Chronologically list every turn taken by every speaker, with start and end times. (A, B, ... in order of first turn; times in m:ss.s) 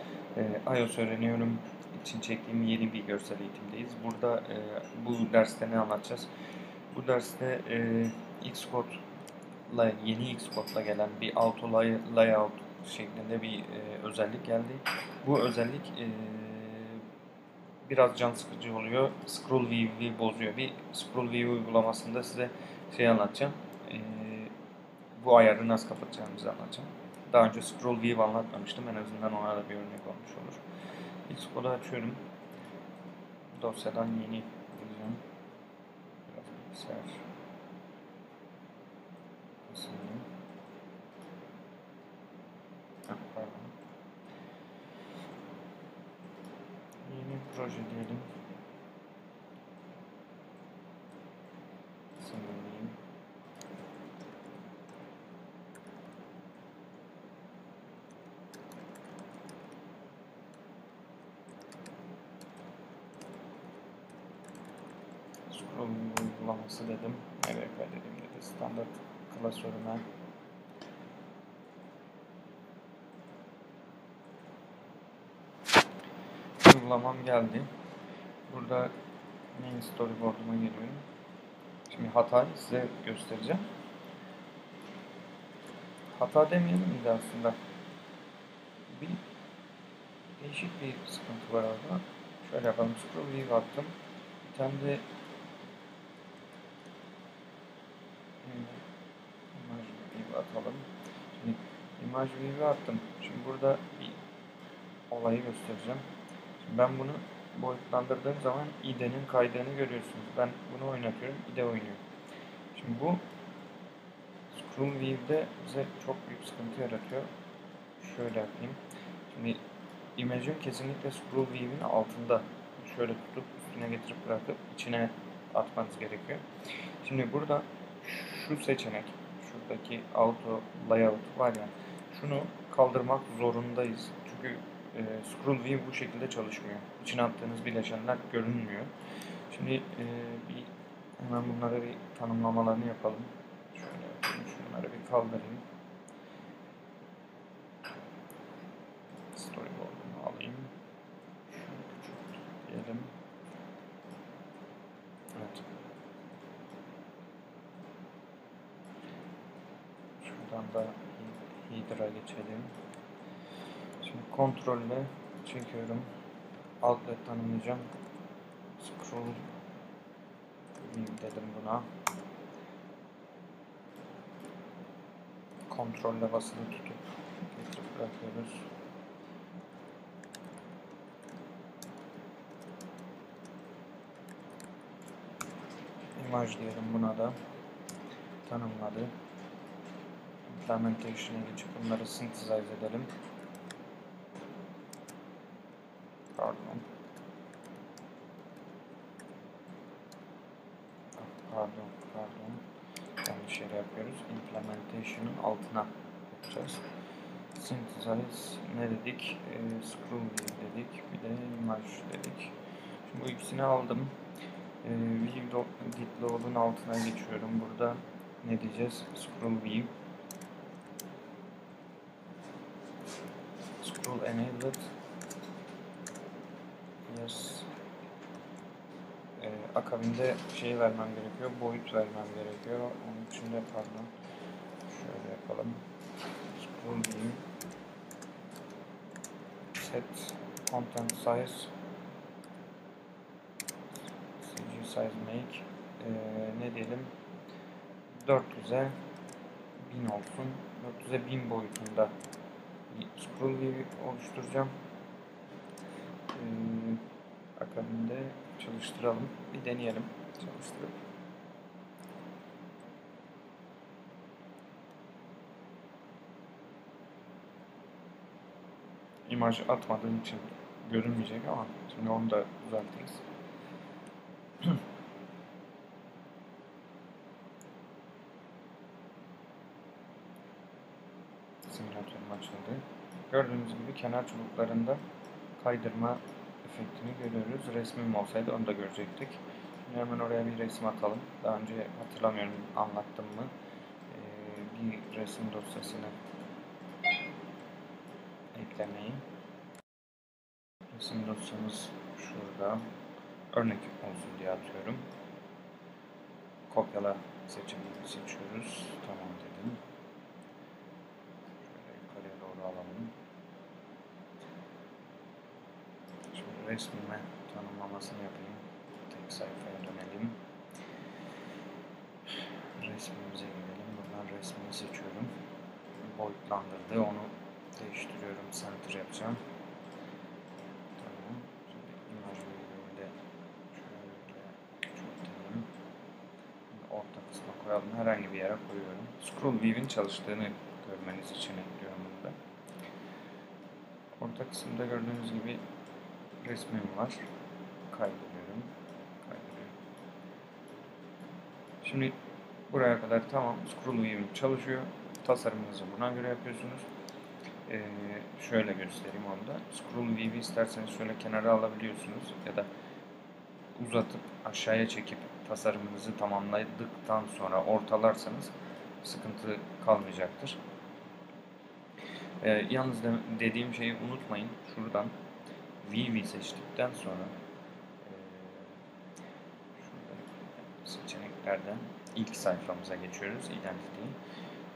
0:00.4-0:06.3 A
0:06.9-0:09.0 A
0:09.7-0:17.0 A
0:17.8-0:24.5 A
0:25.2-0:30.6 A
0:31.3-0:32.2 A
0:33.5-0:35.2 A
0:36.3-0:37.2 A
0:39.7-0:40.3 A
0:43.1-0:43.8 A
0:47.0-0:48.3 A
0:52.2-0:53.0 A
1:05.5-1:10.1 A
1:16.6-1:17.7 A
1:18.5-1:18.9 A
1:19.5-1:21.0 A
1:21.9-1:23.6 A
1:26.2-1:27.6 A
1:28.9-1:29.2 A
1:30.4-1:35.0 A
1:38.4-1:38.8 A
1:39.5-1:44.2 A
1:45.1-1:46.0 A
1:46.6-1:52.0 A
1:52.7-1:53.2 A
1:54.5-1:57.3 A
1:58.0-1:59.6 A
2:00.2-2:06.4 A
2:07.0-2:18.9 A
2:19.5-2:25.6 A
2:29.3-2:30.7 A
2:31.5-2:33.1 A
2:35.4-2:35.6 A
2:40.2-2:42.7 A
2:44.0-2:46.1 A
2:46.8-2:47.9 A
2:48.8-2:49.4 A
2:50.8-2:51.9 A
2:55.7-2:58.7 A
3:06.2-3:07.4 A
3:08.4-3:09.1 A
3:10.5-3:13.1 A
3:16.4-3:16.8 A
3:21.2-3:22.6 A
3:23.2-3:26.8 A
3:27.6-3:32.5 A
3:33.1-3:34.1 A
3:34.8-3:39.9 A
3:43.8-3:44.9 A
3:47.1-3:47.7 A
3:49.4-3:54.1 A
3:54.9-3:55.8 A
3:56.5-3:57.4 A
3:59.8-4:01.7 A
4:04.4-4:07.1 A
4:08.1-4:08.9 A
4:09.8-4:12.1 A
4:12.9-4:14.7 A
4:16.3-4:17.0 A
4:17.6-4:21.0 A
4:29.3-4:33.2 A
4:41.6-4:45.0 A
4:45.6-4:53.5 A
4:54.1-4:56.2 A
4:58.5-4:59.2 A
5:00.9-5:02.8 A
5:03.5-5:05.1 A
5:06.7-5:09.8 A
5:11.6-5:13.1 A
5:16.3-5:20.4 A
5:22.8-5:25.3 A
5:26.0-5:29.4 A
5:31.0-5:33.2 A
5:33.7-5:35.7 A
5:36.7-5:42.4 A
5:44.2-5:45.6 A
5:46.4-5:47.2 A
5:47.9-5:48.7 A
5:49.2-5:49.8 A
5:51.8-5:52.2 A
5:52.7-5:56.9 A
5:57.7-6:02.7 A
6:03.8-6:10.6 A
6:12.4-6:15.1 A
6:15.8-6:17.3 A
6:18.0-6:18.8 A
6:19.8-6:24.2 A